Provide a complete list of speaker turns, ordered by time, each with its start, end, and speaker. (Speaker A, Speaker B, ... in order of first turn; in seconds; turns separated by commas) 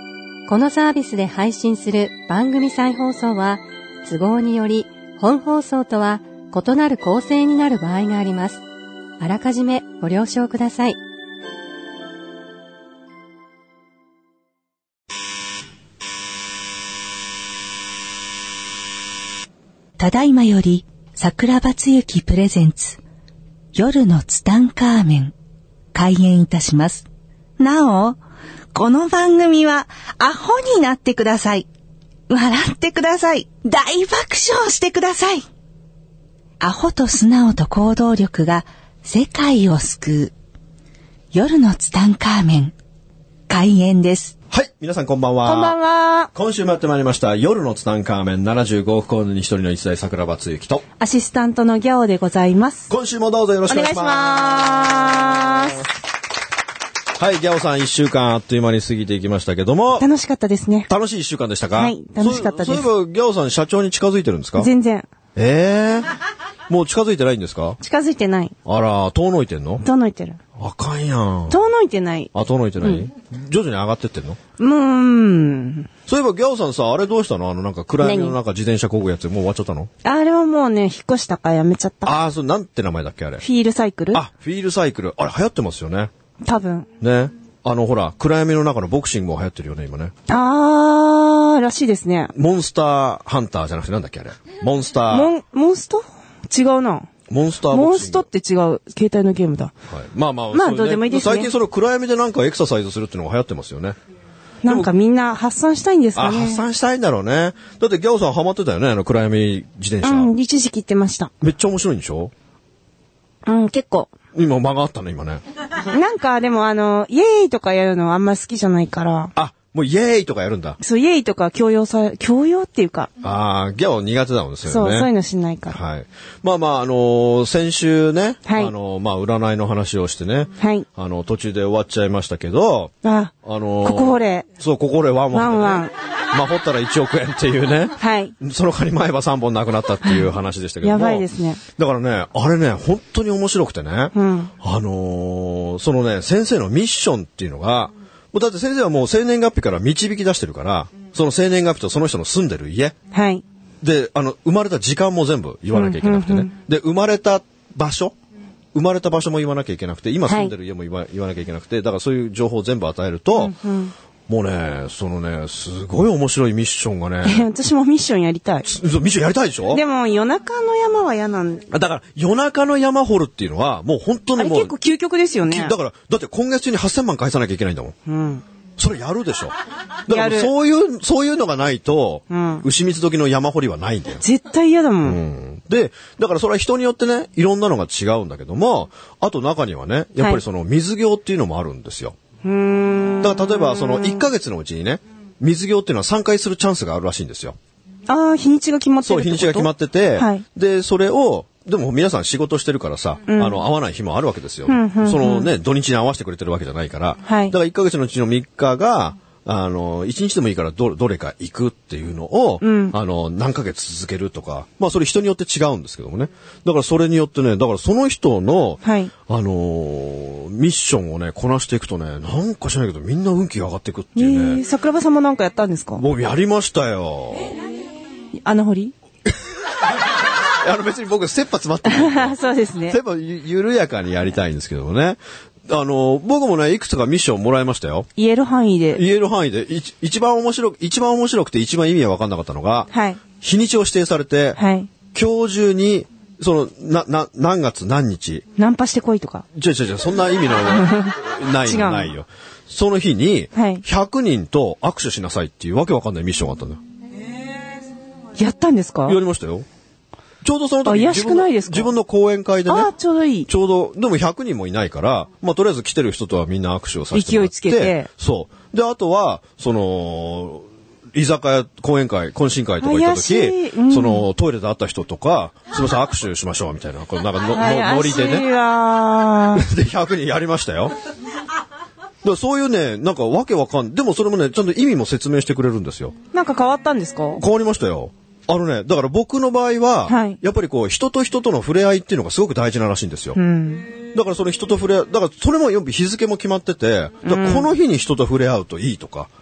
Speaker A: 0.5-8.6, Speaker A: 9.2-11.0, Speaker B: 20.0-23.0, Speaker B: 23.7-25.3, Speaker B: 25.9-27.1, Speaker B: 27.6-28.2, Speaker B: 28.7-31.7, Speaker B: 32.3-35.5, Speaker B: 36.6-40.3, Speaker B: 41.3-42.7, Speaker B: 43.5-44.3, Speaker C: 44.5-45.8, Speaker D: 45.5-46.3, Speaker C: 46.3-50.9, Speaker D: 51.0-52.9, Speaker C: 52.9-55.1, Speaker D: 53.7-55.9, Speaker C: 57.2-60.0, Speaker D: 60.0-60.9, Speaker C: 60.9-64.7, Speaker D: 61.8-62.9, Speaker D: 64.6-65.1, Speaker C: 65.3-66.1, Speaker C: 66.7-67.8, Speaker D: 67.8-68.5, Speaker C: 68.7-69.8, Speaker D: 69.8-70.4, Speaker C: 70.6-71.6, Speaker D: 71.5-73.1, Speaker C: 72.3-74.4, Speaker D: 74.6-75.9, Speaker C: 76.1-79.9, Speaker D: 78.0-78.4, Speaker D: 80.0-82.2, Speaker C: 82.0-83.4, Speaker D: 83.4-84.2, Speaker C: 84.1-86.1, Speaker D: 86.4-86.9, Speaker C: 87.0-90.1, Speaker D: 90.3-92.3, Speaker C: 92.3-95.3, Speaker D: 95.1-97.1, Speaker C: 97.3-98.3, Speaker D: 97.7-99.7, Speaker C: 99.9-104.0, Speaker D: 100.5-101.5, Speaker D: 104.6-106.6, Speaker C: 106.2-110.3, Speaker D: 110.0-111.3, Speaker C: 111.4-112.3, Speaker D: 113.5-114.1, Speaker C: 114.3-115.4, Speaker D: 115.8-119.3, Speaker C: 119.3-120.8, Speaker D: 120.8-123.1, Speaker C: 123.2-125.1, Speaker D: 124.7-125.8, Speaker C: 125.7-152.9, Speaker D: 128.5-128.7, Speaker D: 130.6-130.9, Speaker D: 133.0-134.5, Speaker D: 135.3-135.9, Speaker D: 138.0-138.3, Speaker D: 140.8-141.6, Speaker D: 144.2-144.5, Speaker D: 153.1-153.4, Speaker C: 153.8-158.2, Speaker D: 155.7-156.5, Speaker C: 158.7-163.5, Speaker D: 160.3-160.5, Speaker D: 163.3-163.9, Speaker C: 164.3-167.5, Speaker D: 167.2-168.7, Speaker C: 168.7-169.8, Speaker D: 169.7-171.7, Speaker C: 171.7-174.7, Speaker D: 174.4-175.8, Speaker C: 175.5-178.0, Speaker D: 178.1-178.4, Speaker C: 178.8-179.6, Speaker C: 180.1-184.2, Speaker D: 180.1-180.5, Speaker D: 182.3-182.6, Speaker D: 184.2-185.2, Speaker C: 185.0-192.2, Speaker D: 192.4-194.2, Speaker C: 193.2-197.6, Speaker D: 198.1-200.4, Speaker C: 199.0-224.6, Speaker D: 203.3-203.6, Speaker D: 204.7-205.5, Speaker D: 207.2-207.6, Speaker D: 212.6-212.9, Speaker D: 218.8-219.1, Speaker D: 224.2-226.0, Speaker C: 226.0-227.5, Speaker D: 228.3-228.9, Speaker C: 230.6-232.4, Speaker D: 231.8-233.0, Speaker C: 232.9-238.1, Speaker D: 238.2-239.0, Speaker C: 238.9-244.6, Speaker D: 242.9-243.2, Speaker D: 244.6-244.9, Speaker C: 245.1-248.4, Speaker D: 248.6-249.4, Speaker C: 249.5-256.8, Speaker D: 250.7-252.1, Speaker D: 253.5-253.8, Speaker D: 258.4-259.2, Speaker C: 259.1-259.7, Speaker C: 260.4-262.9, Speaker D: 260.9-261.9, Speaker D: 262.7-263.5, Speaker C: 263.5-278.5, Speaker D: 267.1-268.1, Speaker D: 272.8-274.2, Speaker D: 277.5-279.7, Speaker C: 279.6-280.9, Speaker C: 282.2-286.2, Speaker D: 286.3-287.4, Speaker C: 287.4-293.4, Speaker D: 290.1-290.4, Speaker D: 293.4-293.9, Speaker C: 294.1-299.3, Speaker D: 297.3-297.7